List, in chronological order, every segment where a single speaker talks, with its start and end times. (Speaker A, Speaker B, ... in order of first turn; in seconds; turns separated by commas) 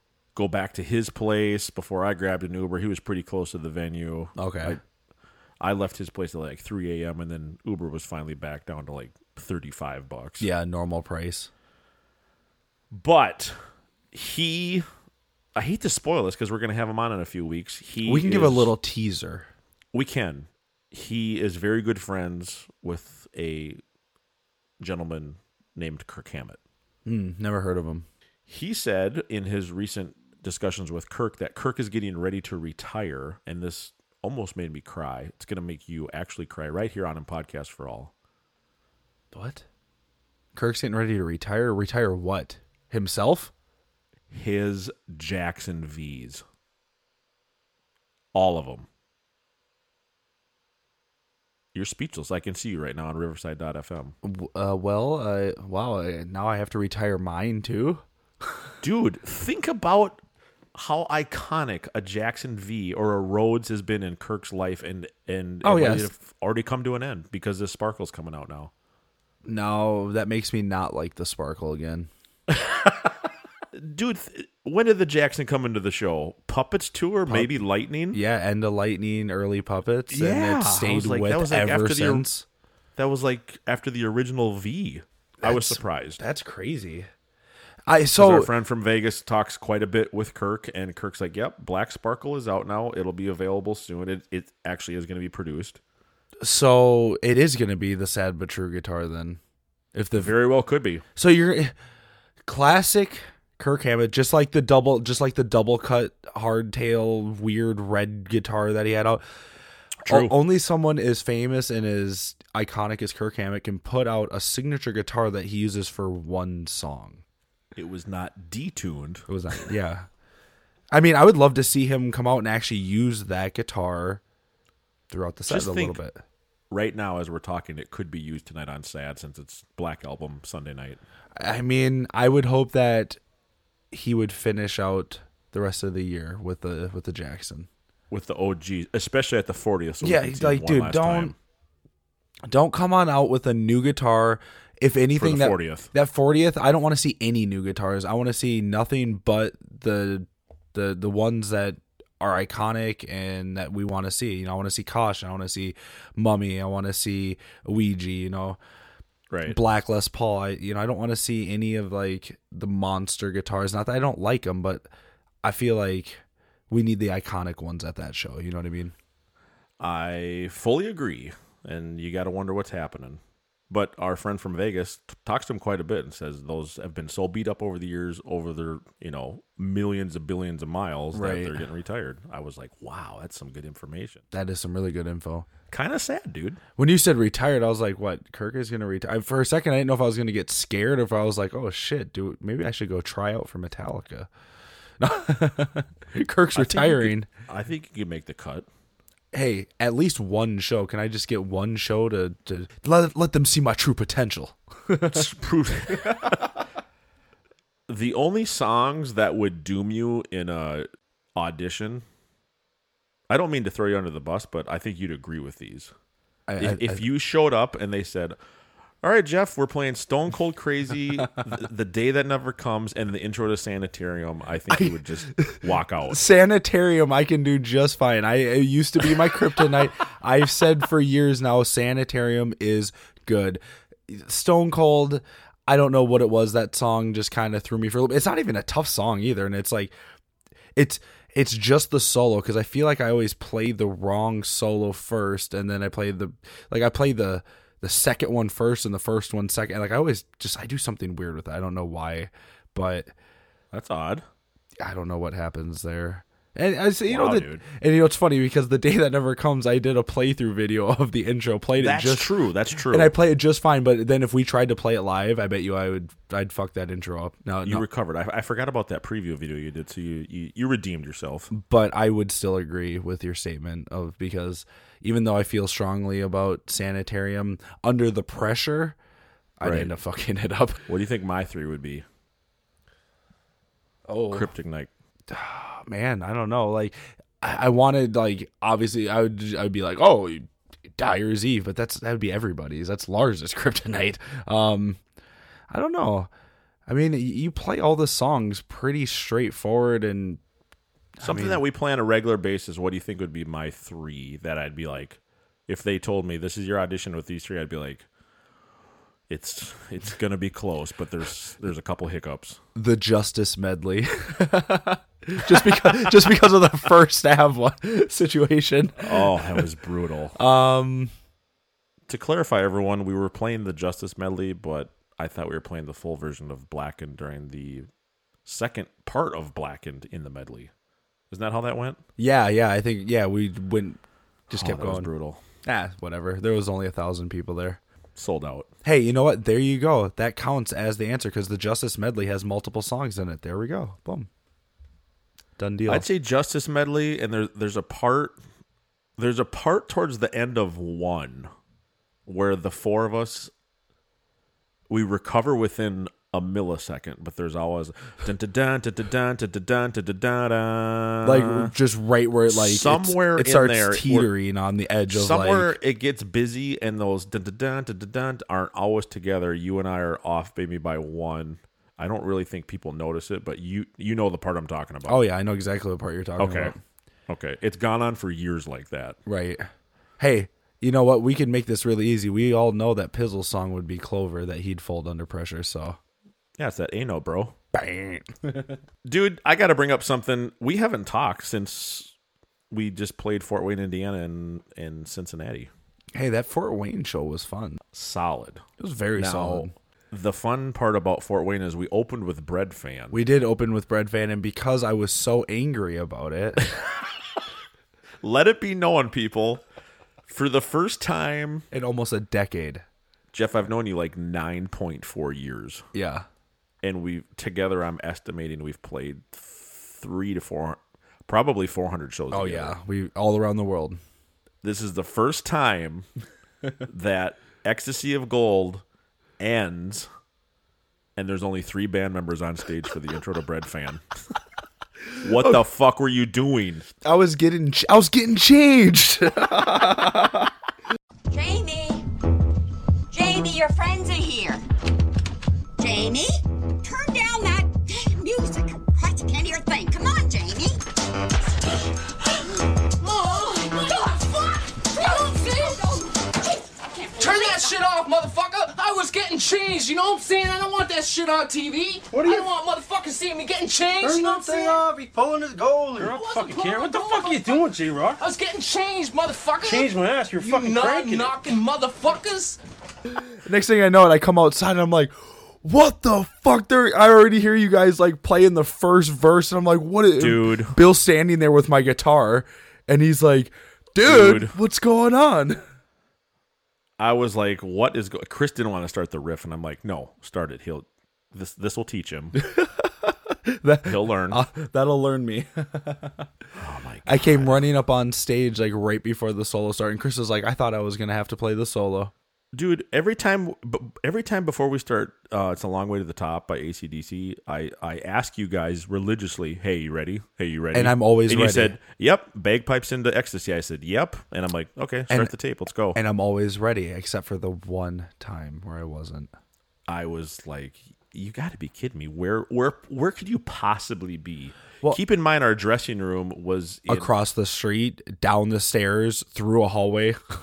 Speaker A: 0.3-4.8, Speaker B: 4.4-4.8, Speaker A: 5.6-10.5, Speaker B: 10.4-11.5, Speaker A: 12.9-13.6, Speaker A: 14.1-14.9, Speaker A: 15.6-18.7, Speaker B: 18.1-19.5, Speaker A: 19.9-23.8, Speaker A: 24.8-26.6, Speaker B: 27.1-28.1, Speaker A: 28.5-38.1, Speaker B: 39.3-39.6, Speaker B: 40.5-43.5, Speaker A: 44.3-46.4, Speaker A: 48.3-48.9, Speaker A: 51.7-54.2, Speaker B: 54.2-58.0, Speaker A: 58.8-60.2, Speaker A: 60.7-68.7, Speaker B: 65.6-66.1, Speaker B: 69.5-72.1, Speaker A: 72.5-73.2, Speaker A: 73.7-78.2, Speaker B: 77.3-77.6, Speaker B: 78.1-82.5, Speaker A: 80.1-82.3, Speaker A: 83.0-86.2, Speaker B: 85.4-87.1, Speaker B: 87.9-88.5, Speaker A: 88.2-95.8, Speaker B: 96.4-99.4, Speaker B: 99.9-100.4, Speaker A: 100.2-101.0, Speaker B: 101.2-101.7, Speaker B: 102.5-109.2, Speaker A: 110.0-110.3, Speaker B: 110.1-117.2, Speaker A: 117.8-119.2, Speaker B: 119.3-120.1, Speaker B: 120.9-124.2, Speaker B: 125.1-126.2, Speaker A: 125.5-126.0, Speaker A: 126.7-131.0, Speaker B: 131.4-133.2, Speaker B: 133.9-137.7, Speaker A: 138.1-141.4, Speaker B: 140.0-141.3, Speaker B: 142.5-158.6, Speaker A: 145.1-145.9, Speaker A: 159.3-159.6, Speaker B: 159.5-164.9, Speaker B: 165.4-168.9, Speaker A: 169.8-184.2, Speaker B: 181.1-181.6, Speaker B: 184.3-185.5, Speaker A: 185.7-186.6, Speaker B: 186.8-194.3, Speaker B: 195.0-197.3, Speaker A: 196.6-198.7, Speaker B: 199.3-205.3, Speaker A: 205.1-206.5, Speaker A: 207.9-212.1, Speaker A: 213.3-215.9, Speaker B: 216.5-217.0, Speaker A: 216.6-218.4, Speaker A: 219.0-226.2, Speaker B: 224.7-239.9, Speaker B: 240.8-253.1, Speaker A: 253.7-254.2, Speaker B: 254.8-262.3, Speaker A: 257.1-257.6, Speaker A: 261.8-263.1, Speaker B: 262.9-267.8, Speaker A: 267.6-271.5, Speaker B: 271.5-279.0, Speaker B: 279.6-280.8, Speaker A: 279.6-279.9, Speaker A: 280.9-282.1, Speaker B: 284.1-284.5, Speaker A: 284.3-284.9, Speaker B: 285.3-295.0, Speaker B: 295.7-296.3, Speaker B: 296.9-300.4, Speaker B: 301.2-301.6, Speaker A: 301.2-308.1, Speaker A: 309.3-312.6, Speaker B: 312.8-319.6, Speaker A: 319.0-320.4, Speaker B: 320.4-321.1, Speaker A: 322.1-327.9, Speaker A: 328.4-330.7, Speaker A: 331.3-332.0, Speaker B: 332.2-335.1, Speaker A: 334.5-335.4, Speaker B: 335.6-337.8, Speaker A: 338.1-338.7, Speaker B: 338.8-344.3, Speaker B: 345.6-346.1, Speaker A: 345.9-348.4, Speaker A: 349.2-351.5, Speaker A: 352.3-353.5, Speaker A: 354.9-361.7, Speaker B: 361.2-365.8, Speaker A: 362.5-364.3, Speaker A: 365.1-375.2, Speaker B: 375.1-376.8, Speaker A: 376.4-376.7, Speaker A: 377.3-379.2, Speaker B: 379.3-379.7, Speaker B: 380.2-386.0, Speaker A: 386.6-387.6, Speaker B: 387.7-388.8, Speaker A: 389.1-392.1, Speaker A: 392.7-395.7, Speaker B: 396.1-397.8, Speaker A: 397.9-398.6, Speaker B: 398.8-399.7, Speaker A: 399.2-403.2, Speaker B: 403.1-406.6, Speaker A: 408.2-409.6, Speaker A: 410.3-411.7, Speaker B: 411.7-412.8, Speaker A: 413.3-415.9, Speaker B: 415.9-416.3, Speaker A: 416.8-422.8, Speaker B: 422.3-424.0, Speaker A: 424.6-426.1, Speaker A: 426.9-428.8, Speaker A: 429.4-430.1, Speaker A: 431.2-434.0, Speaker B: 435.2-435.6, Speaker A: 435.2-436.9, Speaker B: 437.0-440.5, Speaker C: 441.3-442.0, Speaker C: 443.1-444.6, Speaker C: 445.8-450.8, Speaker D: 453.0-455.8, Speaker C: 453.3-454.2, Speaker C: 454.9-457.7, Speaker D: 457.2-464.8, Speaker E: 462.1-462.5, Speaker E: 464.0-468.2, Speaker D: 466.0-472.6, Speaker E: 469.6-471.4, Speaker B: 473.4-485.6, Speaker A: 480.2-480.8, Speaker A: 484.0-484.6, Speaker A: 487.0-492.4, Speaker B: 492.4-496.3, Speaker A: 493.9-494.4, Speaker A: 496.6-497.7, Speaker B: 497.1-502.1, Speaker A: 502.5-516.0, Speaker B: 510.7-511.8, Speaker B: 516.0-519.3, Speaker A: 519.9-527.1, Speaker B: 526.9-530.2